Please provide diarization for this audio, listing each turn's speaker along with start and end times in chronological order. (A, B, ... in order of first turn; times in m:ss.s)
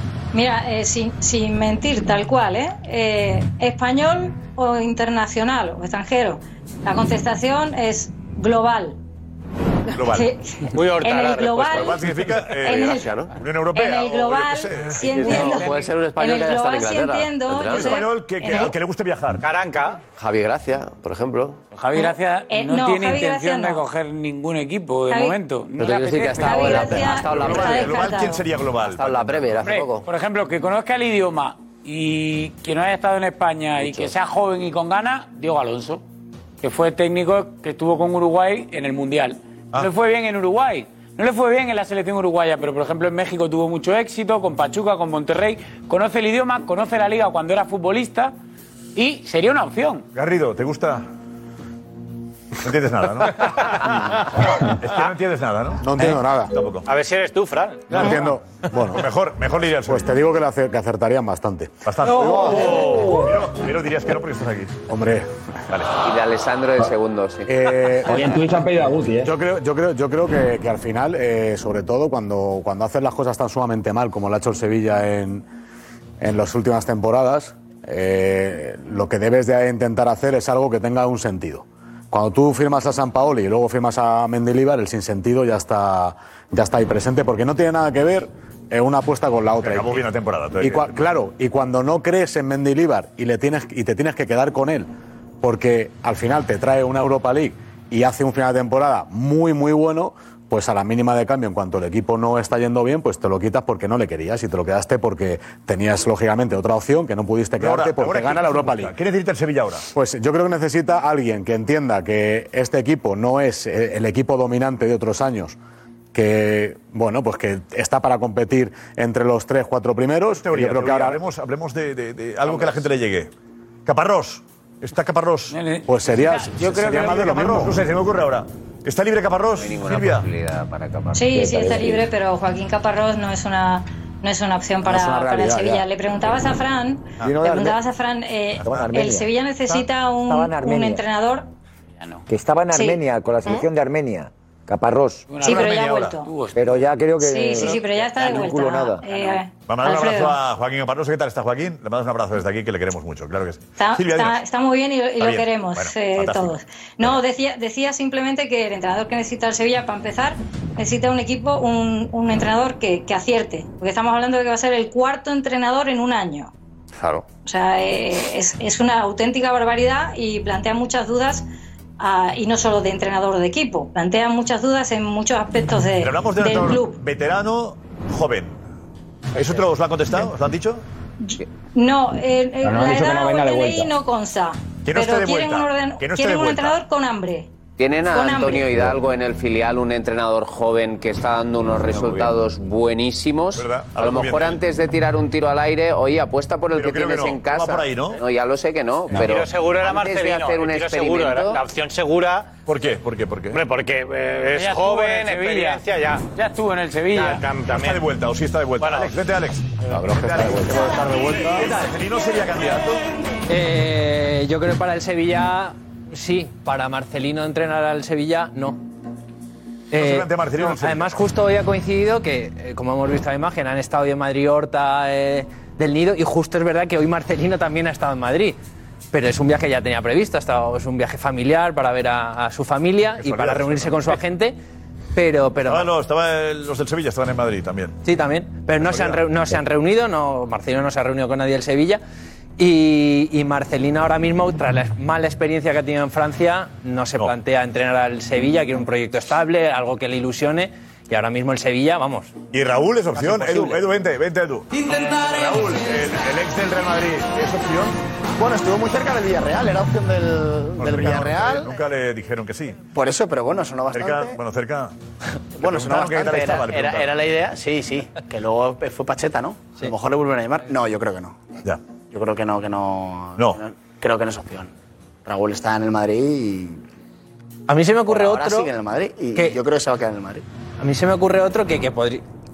0:00.3-0:09.0 A
0:09.9-0:10.3 B
0:10.0-0:12.0 A
0:10.7-0:12.0 C
0:11.7-0:15.3 B
0:12.5-0:13.1 A
0:12.7-0:13.3 D
0:13.7-0:18.7 A
0:15.0-0:18.0 D
0:17.7-0:19.4 B
0:19.4-0:20.0 C
0:20.2-0:21.6 D
0:21.7-0:27.0 E
0:22.0-0:23.9 A
0:25.1-0:25.4 A
0:25.8-0:28.0 D
0:26.4-0:28.4 A
0:27.1-0:29.7 B
0:28.8-0:30.0 D
0:29.6-0:36.0 E
0:36.6-0:48.4 E
0:49.0-0:50.0 E
0:50.1-0:51.1 B
0:52.6-0:56.9 B
0:55.8-0:56.6 F
0:56.8-0:58.1 C
0:57.9-0:59.1 F
0:58.9-1:00.2 B
0:59.8-1:03.3 F
1:01.8-1:04.8 B
1:04.9-1:05.3 F
1:06.0-1:08.4 G
1:07.5-1:08.4 F
1:08.1-1:09.3 H
1:09.2-1:15.4 F
1:16.2-1:34.9 F
1:29.6-1:31.0 B
1:35.4-1:49.0 F
1:47.6-1:49.9 B
1:49.9-1:55.6 F
1:56.1-2:01.2 F
2:00.4-2:03.3 B
2:03.9-2:05.6 B
2:05.5-2:06.6 E
2:05.9-2:07.8 F
2:06.6-2:10.3 B
2:09.6-2:11.4 G
2:11.1-2:21.5 A
2:11.4-2:12.0 F
2:14.8-2:15.8 F
2:17.2-2:17.8 I
2:18.6-2:18.9 B
2:18.6-2:21.0 I
2:22.3-2:25.3 I
2:22.7-2:23.0 A
2:25.3-2:26.8 E
2:25.4-2:26.2 B
2:25.4-2:26.3 A
2:26.6-2:29.0 I
2:27.2-2:30.4 A
2:29.6-2:34.4 B
2:33.8-2:46.5 A
2:35.2-2:37.2 B
2:47.4-2:51.4 A
2:52.0-2:57.0 A
2:56.0-2:58.6 B
2:59.4-3:00.8 B
3:01.2-3:07.5 A
3:02.6-3:03.9 H
3:04.8-3:06.8 B
3:07.8-3:21.6 G
3:08.1-3:08.9 A
3:13.6-3:14.6 B
3:16.7-3:18.2 B
3:19.1-3:22.5 C
3:22.7-3:23.6 B
3:23.5-3:26.2 C
3:24.6-3:25.8 E
3:26.3-3:27.5 E
3:27.1-3:28.0 C
3:27.7-3:33.0 B
3:28.8-3:29.2 C
3:30.2-3:31.3 F
3:33.5-3:38.8 J
3:39.9-3:48.6 J
3:39.9-3:41.1 B
3:49.1-3:54.6 J
3:53.2-3:54.2 B
3:55.2-3:55.9 J
3:55.6-3:58.0 B
3:58.0-4:02.0 J
3:58.8-3:59.2 B
4:02.6-4:12.4 J
4:12.5-4:18.0 B
4:13.2-4:13.8 J
4:18.4-4:21.7 K
4:20.8-4:22.8 B
4:22.9-4:24.4 K
4:23.9-4:24.9 B
4:25.6-4:31.4 K
4:25.6-4:27.2 B
4:32.1-4:34.7 K
4:35.2-4:36.8 K
4:37.7-4:38.7 J
4:38.1-4:40.4 K
4:40.8-4:42.2 J